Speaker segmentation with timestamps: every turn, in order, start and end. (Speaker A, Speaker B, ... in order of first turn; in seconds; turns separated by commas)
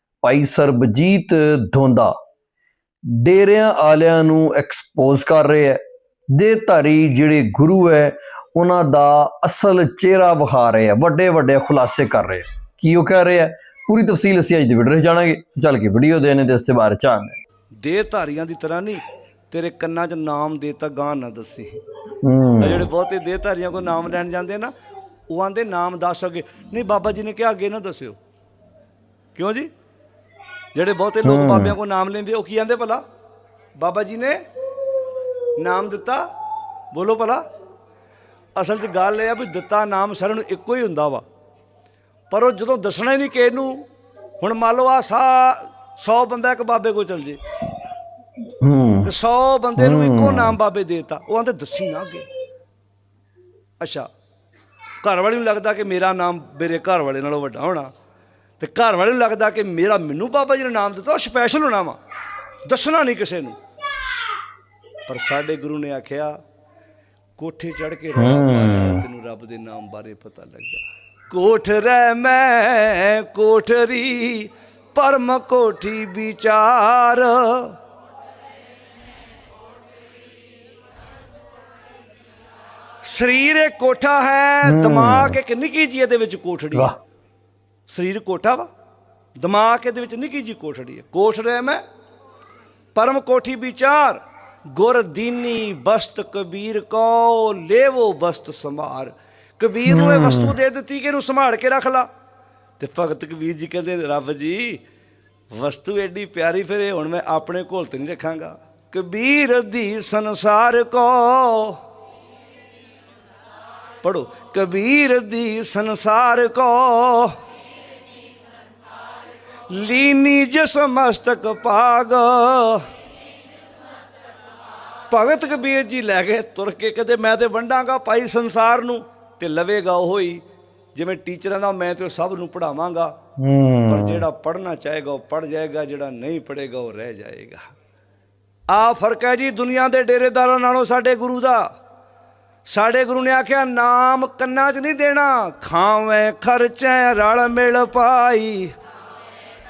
Speaker A: 0.2-2.1, Speaker A: 3.1-5.8, Speaker A: 6.3-17.4, Speaker B: 17.8-21.8, Speaker A: 22.2-22.8, Speaker B: 22.6-24.7, Speaker B: 25.3-28.2, Speaker B: 29.3-29.7, Speaker B: 30.7-33.0, Speaker A: 31.2-31.7, Speaker B: 33.8-34.4, Speaker B: 35.6-36.2, Speaker B: 36.9-37.4, Speaker B: 38.5-41.2, Speaker B: 42.3-43.8, Speaker B: 44.4-47.4, Speaker A: 48.6-49.1, Speaker B: 49.0-52.3, Speaker A: 49.8-50.5, Speaker B: 53.8-54.1, Speaker B: 55.0-57.9, Speaker B: 58.6-62.0, Speaker B: 62.7-63.5, Speaker B: 65.1-66.3, Speaker B: 67.4-77.7, Speaker A: 68.2-69.0, Speaker B: 83.0-86.9, Speaker A: 84.6-85.4, Speaker B: 87.9-88.7, Speaker B: 89.4-91.8, Speaker B: 92.9-94.2, Speaker B: 94.7-102.1, Speaker A: 99.9-100.5, Speaker B: 102.8-104.8, Speaker B: 105.5-111.8, Speaker B: 114.0-117.3, Speaker B: 119.7-122.8, Speaker B: 125.1-130.4, Speaker B: 130.9-133.1, Speaker A: 133.4-134.2, Speaker B: 133.9-137.6, Speaker B: 138.7-141.7, Speaker B: 142.7-148.7